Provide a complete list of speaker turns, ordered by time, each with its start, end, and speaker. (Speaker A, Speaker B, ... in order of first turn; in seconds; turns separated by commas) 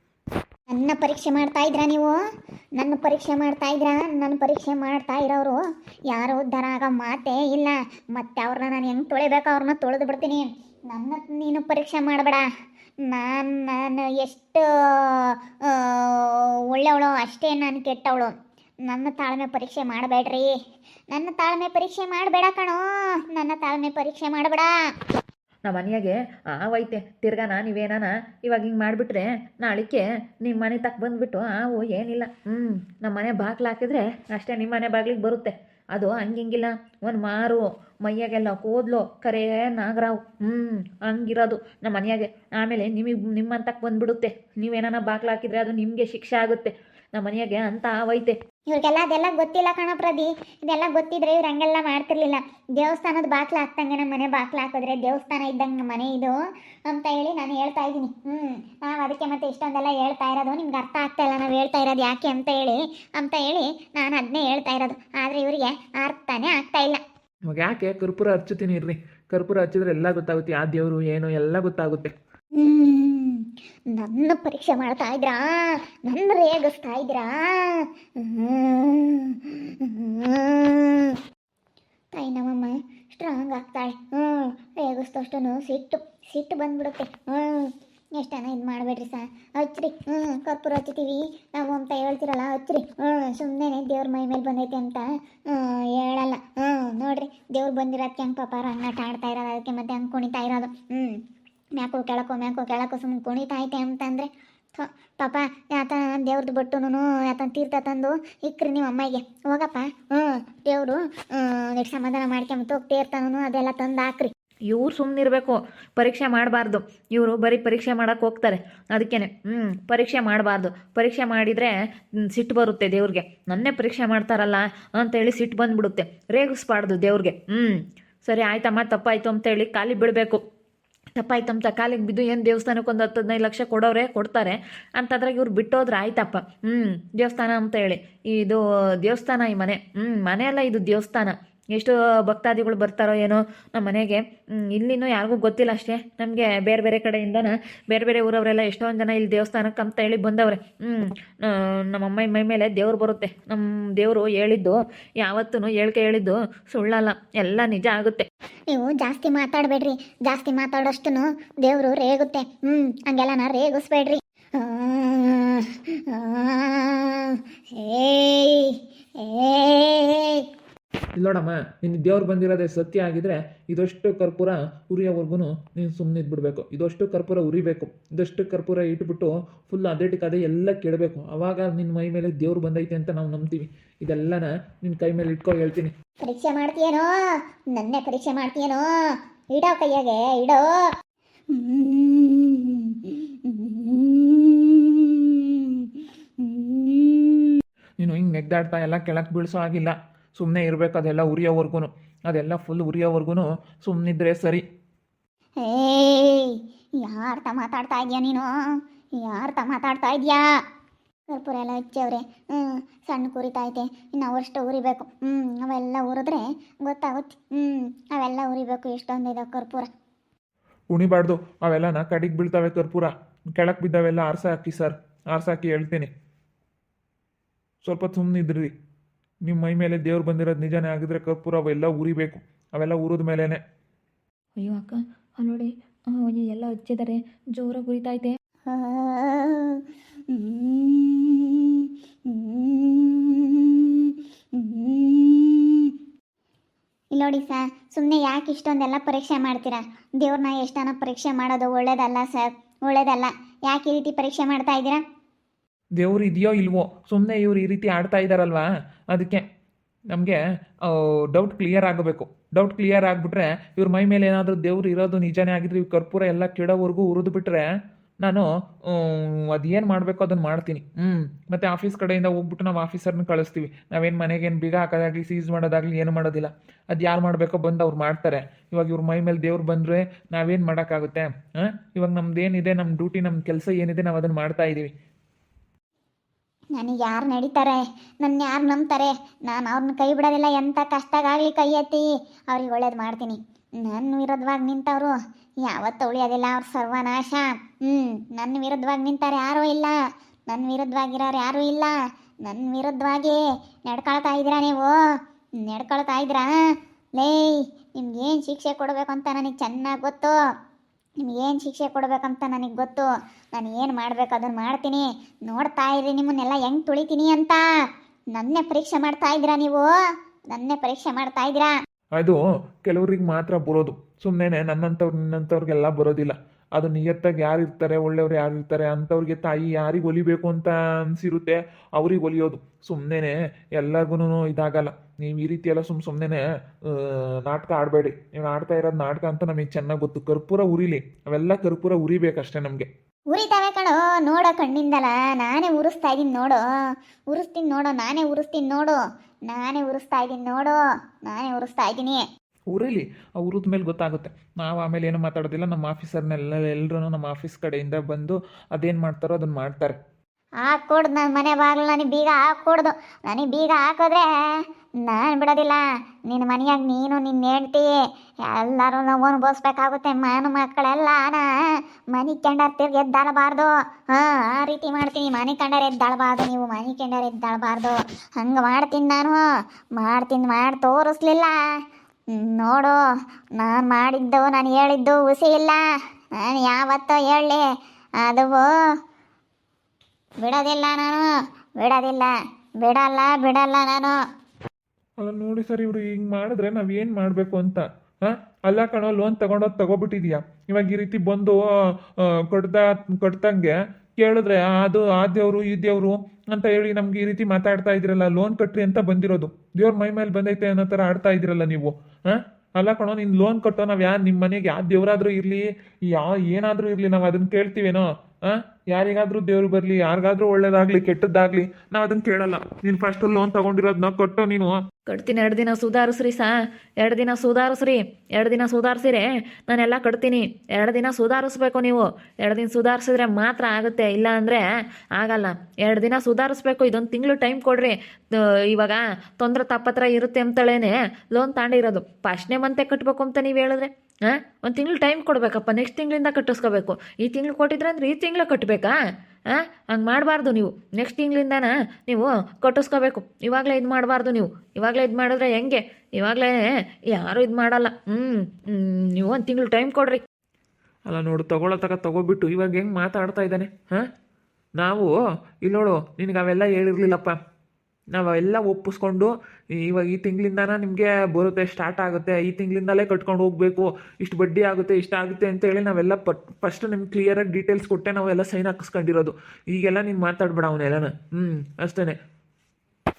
Speaker A: 0.7-2.1, Speaker A: 2.8-5.6, Speaker A: 6.1-12.5, Speaker A: 13.1-18.3, Speaker A: 18.9-20.5, Speaker A: 21.1-24.7, Speaker B: 25.6-48.4, Speaker A: 48.7-67.0, Speaker C: 67.5-72.1, Speaker A: 72.5-81.2, Speaker A: 82.1-101.2, Speaker A: 101.8-114.3, Speaker B: 114.7-121.7, Speaker B: 122.3-130.4, Speaker B: 131.2-158.3, Speaker A: 158.7-170.4, Speaker C: 171.2-185.9, Speaker A: 186.2-187.1, Speaker A: 187.7-188.8, Speaker A: 189.5-190.7, Speaker A: 191.5-195.9, Speaker A: 196.4-197.6, Speaker C: 198.0-204.6, Speaker A: 205.6-208.5, Speaker A: 209.2-210.4, Speaker A: 211.3-219.9, Speaker C: 220.9-226.1, Speaker C: 227.8-228.7, Speaker C: 229.4-233.6, Speaker B: 234.6-238.3, Speaker A: 238.7-245.9, Speaker A: 247.1-255.0, Speaker C: 256.0-259.4, Speaker C: 260.1-267.7, Speaker C: 268.2-284.9, Speaker A: 286.8-299.9, Speaker A: 300.5-304.9, Speaker A: 305.6-306.5, Speaker A: 307.2-310.4, Speaker A: 311.2-317.6, Speaker A: 318.3-319.9, Speaker A: 320.5-321.7, Speaker C: 322.2-342.9, Speaker A: 343.3-346.6, Speaker A: 347.3-352.2, Speaker C: 352.7-360.0, Speaker A: 360.6-364.2, Speaker A: 365.0-367.9, Speaker A: 368.5-371.4, Speaker A: 372.1-379.4, Speaker A: 380.0-381.5, Speaker A: 382.3-382.9, Speaker A: 383.6-385.8, Speaker A: 386.4-387.6, Speaker A: 388.2-388.7, Speaker A: 390.4-391.2, Speaker A: 391.8-394.1, Speaker C: 395.2-401.6, Speaker C: 402.2-424.8, Speaker B: 425.1-426.5, Speaker B: 427.0-434.6, Speaker B: 435.1-448.9, Speaker B: 449.5-456.6, Speaker B: 457.1-460.2, Speaker C: 461.1-464.1, Speaker C: 464.8-465.1, Speaker C: 465.6-467.4, Speaker C: 468.1-482.2